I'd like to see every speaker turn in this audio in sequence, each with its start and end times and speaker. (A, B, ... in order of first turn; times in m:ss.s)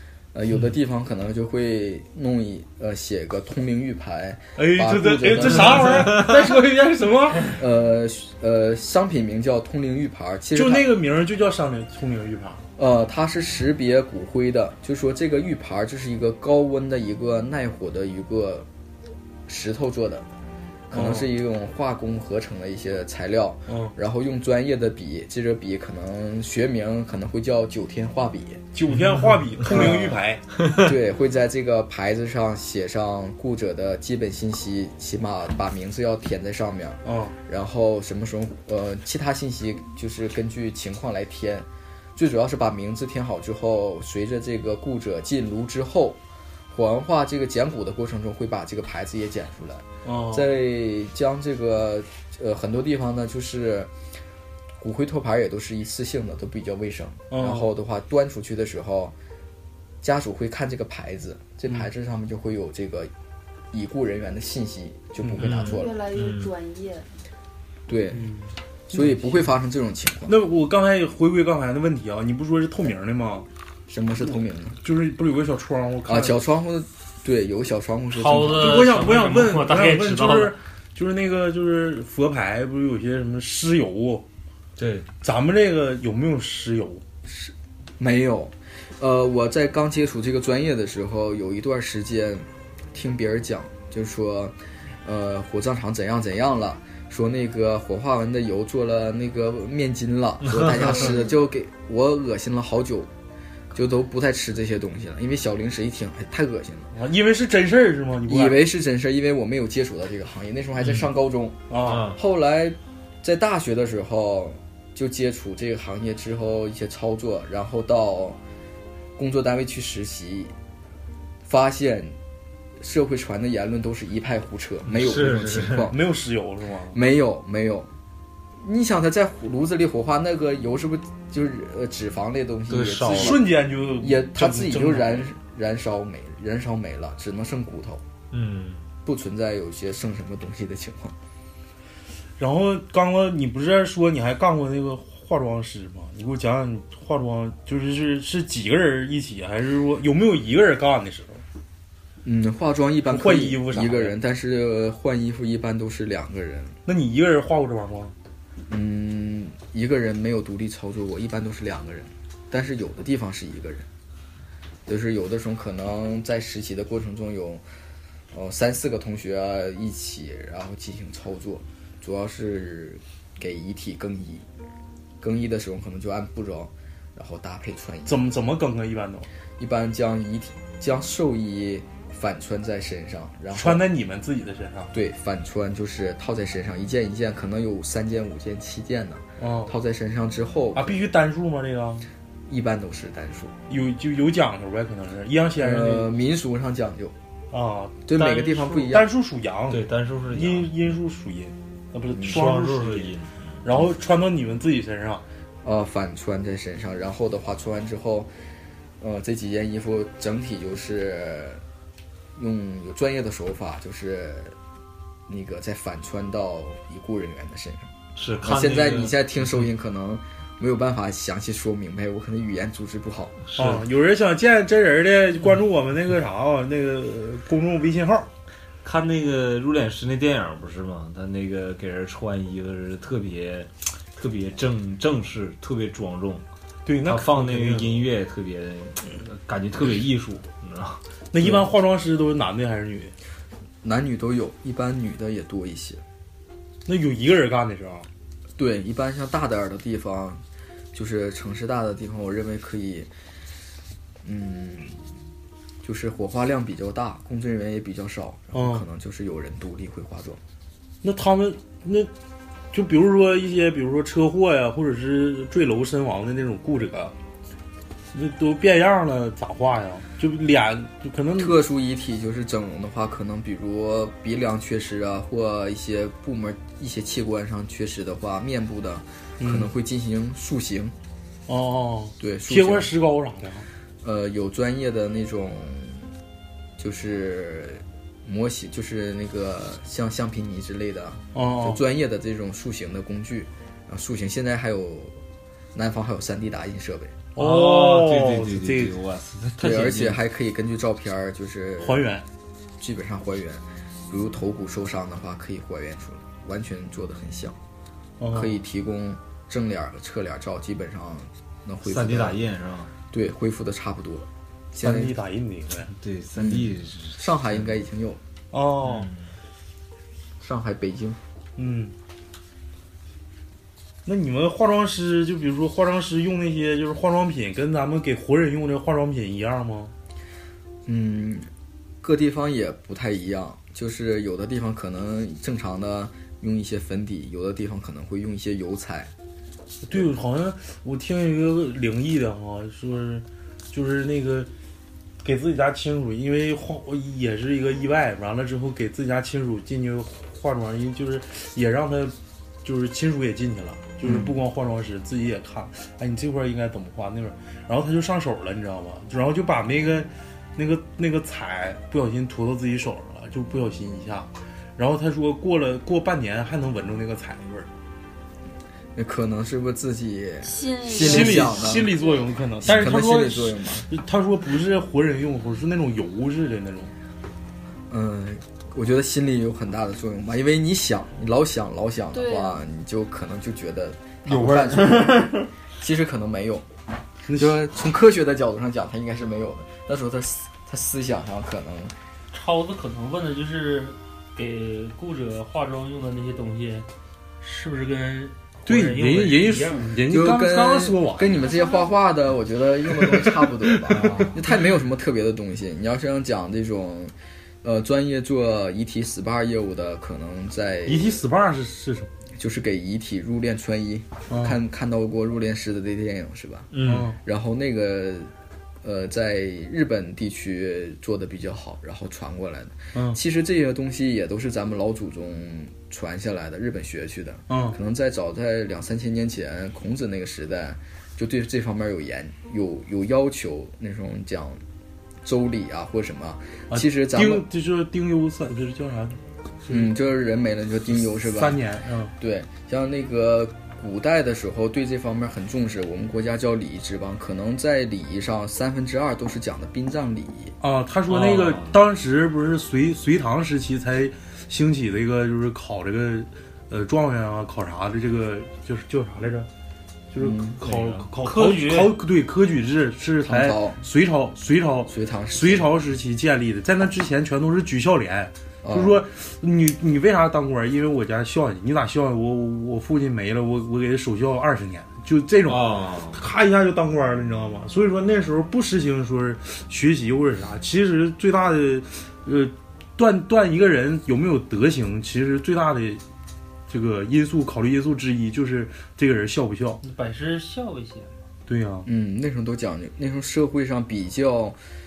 0:00.3-0:06.2 A
0:04.6-0:07.6 B
0:07.5-0:10.9 A
0:10.5-0:12.6 B
0:12.8-0:18.7 A
0:19.5-0:20.3 A
0:20.9-0:28.6 A
0:20.9-0:21.3 B
0:23.7-0:23.9 B
0:28.7-0:30.4 B
0:29.7-0:30.1 A
0:30.8-0:46.2 A
0:37.0-0:37.3 B
0:46.7-0:53.9 A
0:50.0-0:50.5 B
0:54.8-0:59.1 A
0:57.3-0:57.7 B
1:00.0-1:03.1 A
1:03.7-1:06.0 A
1:05.4-1:06.5 C
1:05.6-1:07.1 D
1:07.9-1:08.2 A
1:08.2-1:08.4 E
1:08.9-1:10.4 A
1:08.9-1:09.4 B
1:10.3-1:13.4 B
1:13.9-1:14.8 A
1:14.8-1:16.4 B
1:16.0-1:18.8 A
1:18.1-1:20.6 E
1:18.5-1:24.2 B
1:24.8-1:25.1 C
1:25.2-1:27.0 B
1:27.3-1:43.1 A
1:40.4-1:41.0 C
1:43.7-1:46.9 A
1:46.9-1:48.6 B
1:48.3-1:58.4 A
1:51.7-1:52.1 B
1:51.9-1:52.2 C
1:59.2-2:00.5 A
2:01.4-2:02.2 A
2:02.8-2:06.0 A
2:04.9-2:05.9 C
2:05.9-2:07.0 B
2:06.9-2:07.9 A
2:08.6-2:13.5 A
2:12.7-2:13.4 C
2:13.1-2:15.3 B
2:14.0-2:18.0 A
2:18.3-2:18.9 C
2:19.0-2:21.2 A
2:22.4-2:31.4 B
2:32.2-2:36.8 A
2:33.1-2:34.2 B
2:36.9-2:38.1 B
2:38.7-2:43.9 A
2:44.9-2:47.6 A
2:48.3-2:54.4 A
2:55.2-2:58.2 A
2:58.0-2:59.3 B
2:59.6-3:03.8 A
3:03.5-3:04.9 B
3:04.9-3:11.0 A
3:09.4-3:09.7 B
3:10.7-3:12.0 B
3:12.5-3:13.5 A
3:13.7-3:16.1 B
3:15.6-3:17.2 A
3:17.5-3:25.2 B
3:18.0-3:19.1 A
3:19.7-3:21.0 C
3:22.2-3:23.5 C
3:25.6-3:28.3 A
3:29.0-3:31.6 A
3:32.4-3:34.6 A
3:35.3-3:37.9 A
3:38.2-3:39.2 C
3:38.4-3:43.4 A
3:43.5-3:43.8 C
3:43.6-3:48.3 B
3:48.8-3:56.4 C
3:56.8-3:58.0 B
3:57.0-4:01.0 C
4:01.3-4:03.1 B
4:03.8-4:06.0 A
4:06.9-4:08.1 B
4:08.6-4:10.4 A
4:10.9-4:13.1 A
4:14.2-4:15.0 A
4:15.8-4:20.4 A
4:18.5-4:18.8 B
4:21.0-4:22.1 B
4:22.7-4:27.1 B
4:28.1-4:31.6 B
4:31.4-4:41.0 A
4:39.4-4:39.7 B
4:41.5-4:43.7 B
4:42.2-4:42.9 A
4:44.0-4:46.1 A
4:46.8-4:55.2 A
4:51.3-4:51.8 B
4:55.7-4:57.2 A
4:57.4-4:59.0 B
4:57.4-5:00.2 C
4:59.6-5:02.0 A
5:01.8-5:02.2 B
5:02.8-5:07.6 A
5:08.2-5:08.6 B
5:08.3-5:12.4 A
5:11.8-5:12.9 C
5:13.1-5:15.1 A
5:14.8-5:15.9 B
5:15.9-5:17.7 C
5:16.4-5:18.2 A
5:18.5-5:19.1 B
5:18.8-5:19.3 C
5:20.4-5:21.2 A
5:21.6-5:21.9 B
5:24.0-5:29.9 B
5:30.9-5:31.5 A
5:32.0-5:39.1 A
5:39.8-5:44.5 B
5:45.2-6:07.7 B
5:54.0-5:54.3 A
6:09.0-6:12.0 A
6:10.4-6:12.4 D
6:10.9-6:13.0 B
6:12.6-6:13.9 A
6:12.6-6:13.5 E
6:13.9-6:16.9 B
6:17.9-6:26.7 A
6:22.1-6:22.6 D
6:24.6-6:25.4 C
6:27.3-6:27.6 B
6:27.4-6:31.9 A
6:32.3-6:36.9 E
6:37.4-6:39.9 E
6:38.7-6:41.4 B
6:40.1-6:51.2 A
6:41.5-6:41.9 D
6:43.0-6:44.4 B
6:50.9-6:52.1 B
6:52.3-6:56.7 A
6:54.3-6:54.6 B
6:56.7-6:57.1 C
6:56.8-6:57.2 B
6:57.2-6:58.3 A
6:58.8-7:14.6 A
7:02.9-7:03.2 B
7:07.5-7:07.8 B
7:15.2-7:17.4 A
7:16.7-7:19.9 B
7:19.7-7:21.6 A
7:21.0-7:22.1 B
7:22.2-7:30.6 A
7:30.6-7:39.5 B
7:31.1-7:31.8 C
7:40.1-8:06.0 B
7:40.2-7:40.6 A
7:41.2-7:42.0 E
7:43.2-7:43.8 A
7:44.9-7:45.7 A
7:48.6-7:49.0 A
7:55.5-7:56.2 C
8:06.7-8:09.8 B
8:09.8-8:11.2 E
8:11.5-8:11.9 B
8:11.8-8:14.6 A